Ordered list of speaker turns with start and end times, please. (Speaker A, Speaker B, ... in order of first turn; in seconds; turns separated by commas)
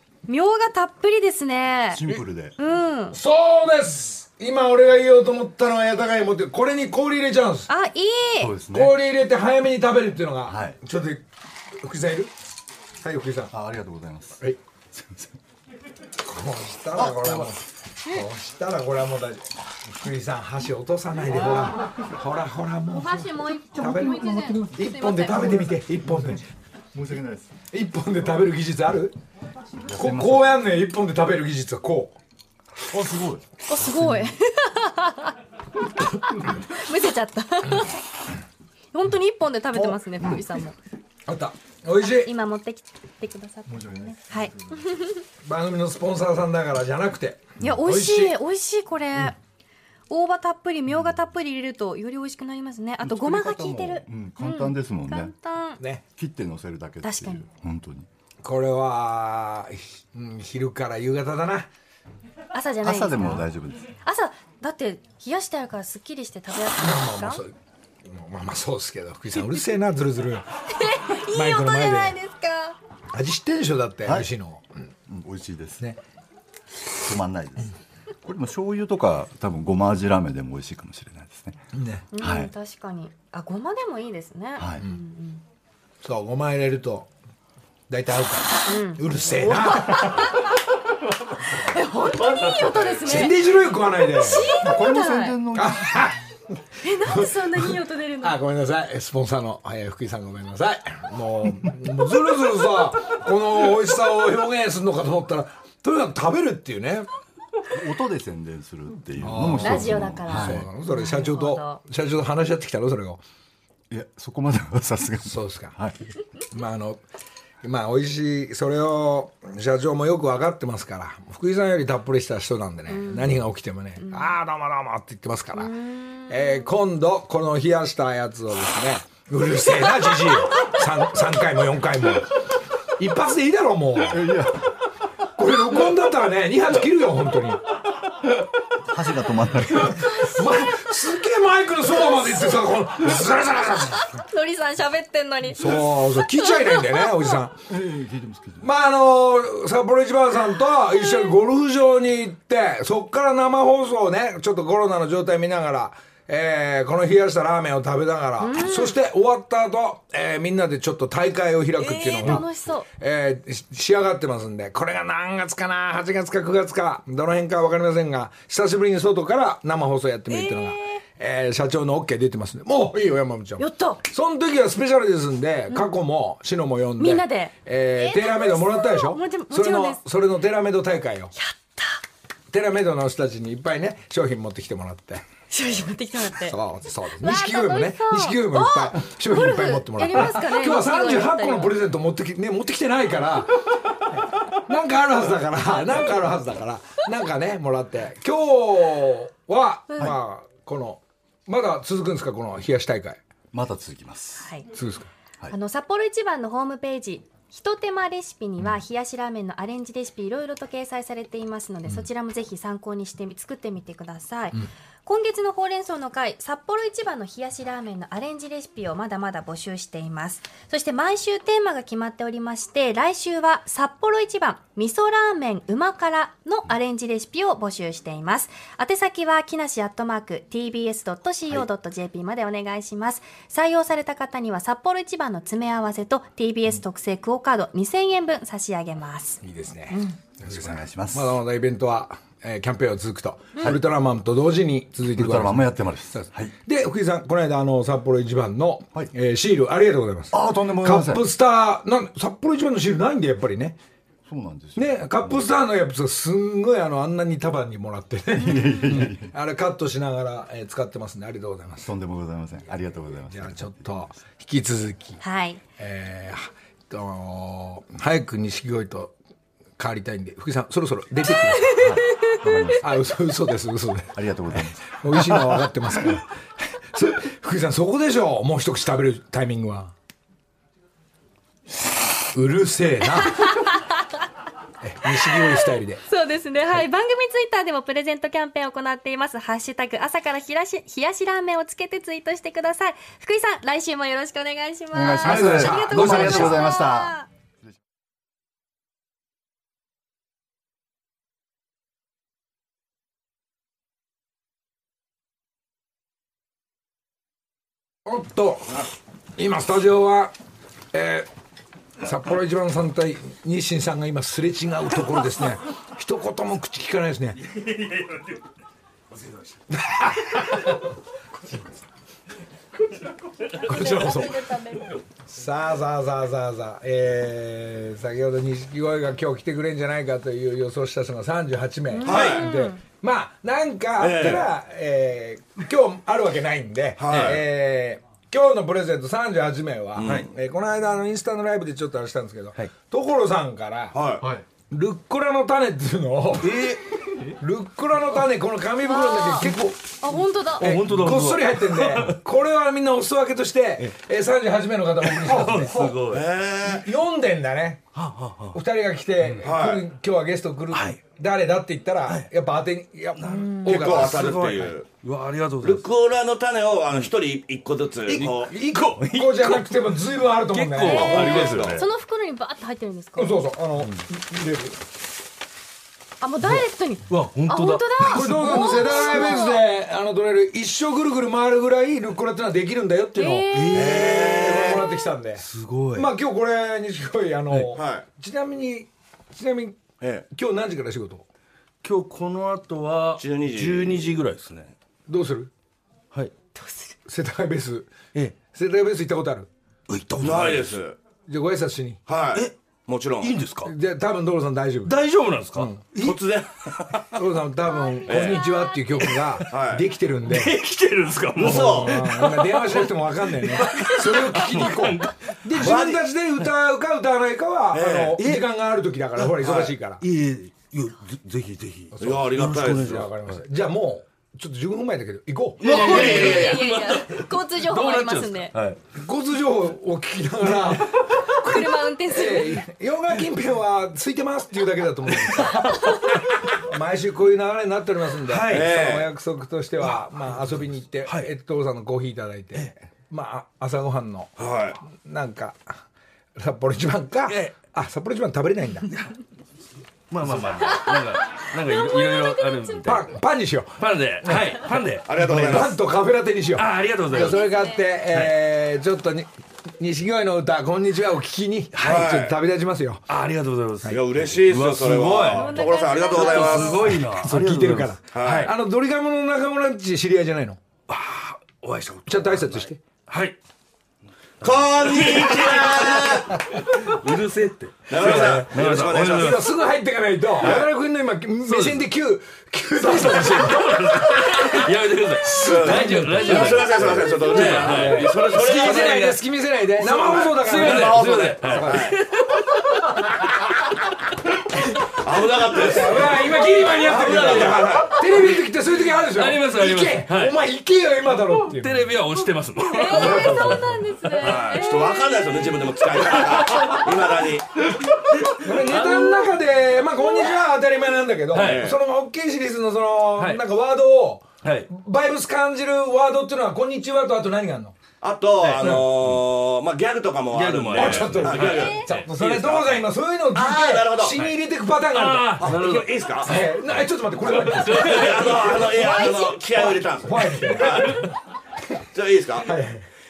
Speaker A: 0.3-2.1, Speaker B: 1.9-2.5, Speaker A: 2.6-3.2, Speaker C: 3.1-7.7, Speaker A: 7.7-8.5, Speaker B: 8.4-8.9, Speaker C: 8.7-12.3, Speaker B: 10.5-10.8, Speaker C: 13.0-13.5, Speaker B: 13.5-14.4, Speaker B: 14.9-15.3, Speaker C: 16.2-26.4, Speaker B: 17.0-17.5, Speaker B: 21.3-21.9, Speaker A: 22.9-25.7, Speaker B: 26.9-27.6, Speaker C: 27.7-29.2, Speaker B: 29.8-30.6, Speaker C: 29.9-32.2, Speaker B: 32.9-34.3, Speaker A: 33.7-35.4, Speaker A: 36.0-38.0, Speaker A: 38.9-40.8, Speaker C: 41.3-42.3, Speaker A: 42.0-45.2, Speaker B: 43.7-44.9, Speaker C: 45.4-48.4, Speaker A: 47.6-49.4, Speaker A: 50.1-55.8, Speaker B: 53.0-55.3, Speaker B: 56.1-58.1, Speaker A: 57.0-57.5, Speaker C: 58.4-61.7, Speaker A: 62.5-63.5, Speaker B: 62.8-63.9, Speaker A: 64.0-67.4, Speaker C: 66.8-67.5, Speaker C: 68.0-70.5, Speaker A: 70.7-72.8, Speaker C: 71.3-72.2, Speaker C: 73.1-74.7, Speaker B: 74.0-74.3, Speaker B: 75.1-75.9, Speaker B: 77.0-81.6, Speaker C: 81.7-82.1, Speaker A: 82.1-85.4, Speaker B: 82.2-82.5, Speaker B: 84.6-84.8, Speaker C: 86.0-87.1, Speaker C: 87.9-90.3, Speaker A: 88.7-90.6, Speaker A: 91.4-95.4, Speaker B: 92.3-92.8, Speaker C: 93.0-94.6, Speaker B: 94.5-96.0, Speaker C: 95.5-96.2, Speaker A: 96.8-98.4, Speaker C: 97.0-107.1, Speaker B: 107.7-110.7, Speaker C: 109.2-113.2, Speaker A: 109.6-111.8, Speaker B: 113.9-116.0, Speaker C: 115.2-115.8, Speaker C: 116.5-117.0, Speaker C: 117.6-125.7, Speaker A: 122.9-123.3, Speaker A: 124.0-124.3, Speaker A: 125.5-126.7, Speaker C: 126.3-132.4, Speaker C: 133.0-134.3, Speaker B: 134.1-134.7, Speaker C: 135.4-137.7, Speaker B: 138.8-140.1, Speaker A: 139.8-140.9, Speaker C: 140.0-144.1, Speaker A: 141.9-142.8, Speaker A: 143.9-147.4, Speaker C: 145.5-147.6, Speaker B: 147.7-148.7, Speaker C: 148.6-181.3, Speaker A: 151.0-151.3, Speaker A: 158.4-159.0, Speaker A: 161.8-162.9, Speaker A: 170.3-171.0, Speaker A: 173.6-174.0, Speaker A: 177.0-180.0, Speaker A: 181.4-182.0, Speaker C: 182.5-185.2, Speaker A: 185.5-186.6, Speaker C: 186.4-193.6, Speaker A: 187.2-191.8, Speaker C: 194.5-203.2, Speaker B: 203.5-204.5, Speaker A: 204.4-204.7, Speaker C: 204.7-205.1, Speaker A: 205.5-240.2, Speaker C: 239.4-253.8, Speaker B: 240.4-241.4, Speaker B: 245.1-246.5, Speaker B: 250.3-251.2, Speaker B: 254.3-255.4, Speaker C: 254.8-261.9, Speaker B: 258.5-259.3, Speaker B: 261.8-264.0, Speaker C: 263.3-265.2, Speaker A: 265.2-265.6, Speaker C: 265.8-269.1, Speaker C: 269.8-271.8, Speaker B: 271.8-273.1, Speaker A: 271.8-272.3, Speaker C: 272.8-276.3, Speaker B: 274.1-275.7, Speaker C: 276.9-279.9, Speaker C: 282.3-283.6, Speaker A: 283.4-284.0, Speaker C: 284.8-286.0, Speaker A: 286.1-297.3, Speaker B: 294.9-297.2, Speaker C: 295.2-296.6, Speaker D: 296.0-296.5, Speaker C: 308.1-308.7, Speaker C: 309.4-310.3, Speaker C: 310.9-311.3, Speaker C: 312.0-317.4, Speaker D: 317.4-318.4, Speaker D: 319.1-319.6, Speaker C: 319.7-320.8, Speaker C: 323.6-324.5, Speaker A: 323.6-325.0, Speaker C: 325.3-344.0, Speaker A: 331.9-332.8, Speaker E: 332.0-332.5, Speaker E: 334.0-334.5, Speaker E: 337.0-337.4, Speaker E: 340.0-340.3, Speaker E: 343.9-344.2, Speaker C: 344.7-346.8, Speaker D: 346.4-346.9, Speaker C: 347.4-350.0, Speaker A: 348.8-349.5, Speaker A: 350.0-350.7, Speaker D: 350.6-352.2, Speaker C: 350.6-356.0, Speaker D: 355.0-356.3, Speaker E: 356.1-356.9, Speaker C: 356.6-357.9, Speaker D: 357.9-358.6, Speaker C: 358.5-364.3, Speaker E: 359.4-359.9, Speaker D: 360.7-361.0, Speaker D: 363.2-365.9, Speaker A: 363.3-363.7, Speaker E: 363.6-364.9, Speaker E: 365.6-368.5, Speaker C: 368.1-371.4, Speaker D: 368.2-370.0, Speaker D: 370.5-371.9, Speaker A: 370.8-373.4, Speaker E: 370.9-371.9, Speaker C: 373.2-374.8, Speaker A: 376.2-379.6, Speaker D: 377.1-378.7, Speaker C: 378.1-391.3, Speaker A: 383.2-383.8, Speaker D: 383.5-384.7, Speaker E: 383.7-384.9, Speaker D: 385.4-386.1, Speaker E: 387.7-388.1, Speaker E: 390.0-390.3, Speaker D: 391.8-394.7, Speaker E: 393.2-394.1, Speaker C: 395.1-395.5, Speaker A: 396.6-396.9, Speaker C: 397.1-397.9, Speaker C: 398.5-399.5, Speaker D: 399.9-400.8, Speaker E: 400.2-401.0, Speaker C: 401.3-402.0, Speaker E: 402.1-403.3, Speaker D: 403.2-403.7, Speaker C: 403.6-405.0, Speaker D: 404.8-407.1, Speaker C: 405.5-405.9, Speaker E: 406.0-406.7, Speaker C: 407.1-410.6, Speaker E: 408.1-408.5, Speaker D: 409.0-409.5, Speaker E: 409.5-409.9, Speaker D: 410.3-415.8, Speaker E: 411.4-412.0, Speaker C: 411.4-420.0, Speaker E: 415.6-416.0, Speaker E: 417.7-418.2, Speaker D: 418.2-418.5, Speaker D: 419.2-423.4, Speaker E: 419.4-419.7, Speaker C: 421.9-422.2, Speaker E: 422.0-423.0, Speaker C: 422.8-426.3, Speaker D: 425.6-428.8, Speaker A: 425.6-428.5, Speaker E: 425.7-426.5, Speaker C: 428.9-435.8, Speaker A: 431.4-432.6, Speaker D: 435.3-436.2, Speaker C: 436.6-444.3, Speaker D: 438.3-438.7, Speaker E: 438.5-439.1, Speaker D: 439.9-440.2, Speaker E: 444.4-444.8, Speaker C: 444.8-445.7, Speaker C: 446.4-448.9, Speaker D: 447.3-447.6, Speaker D: 448.9-449.2, Speaker D: 450.1-453.1, Speaker A: 450.6-450.9, Speaker A: 451.8-452.8, Speaker C: 452.9-454.7, Speaker D: 453.8-455.7, Speaker E: 455.1-455.8, Speaker C: 455.5-463.0, Speaker D: 456.6-457.4, Speaker A: 457.1-457.9, Speaker D: 458.1-458.4, Speaker D: 461.7-462.1, Speaker E: 461.8-462.4, Speaker D: 463.1-468.5, Speaker E: 463.9-467.0, Speaker A: 465.3-467.0, Speaker C: 466.9-470.6, Speaker E: 468.1-468.5, Speaker D: 470.9-473.4, Speaker C: 472.1-472.8, Speaker D: 474.4-479.5, Speaker E: 474.4-476.4, Speaker E: 477.9-479.4, Speaker C: 478.0-491.9, Speaker E: 480.4-480.7, Speaker D: 481.5-481.9, Speaker D: 482.8-489.2, Speaker E: 485.4-489.1, Speaker D: 489.8-493.1, Speaker E: 490.0-492.0, Speaker E: 495.0-496.1, Speaker C: 495.5-501.9, Speaker D: 496.6-498.4, Speaker E: 496.9-498.0, Speaker D: 499.0-500.4, Speaker D: 501.4-504.3, Speaker A: 502.7-505.5, Speaker C: 502.9-503.9, Speaker E: 504.2-507.5, Speaker D: 506.1-506.9, Speaker D: 508.1-509.3, Speaker C: 508.4-517.8, Speaker D: 511.3-511.7, Speaker E: 511.4-511.8, Speaker D: 513.2-513.4, Speaker D: 514.4-514.7, Speaker E: 518.0-522.8, Speaker D: 518.4-519.3, Speaker D: 520.3-522.1, Speaker C: 520.7-528.7, Speaker A: 521.4-521.9, Speaker E: 523.3-524.2, Speaker D: 524.9-526.6, Speaker E: 525.4-526.3, Speaker D: 527.3-528.7, Speaker E: 527.8-531.0, Speaker A: 528.9-529.4, Speaker C: 529.6-531.1, Speaker D: 530.8-531.1, Speaker E: 531.9-532.5, Speaker C: 532.4-532.9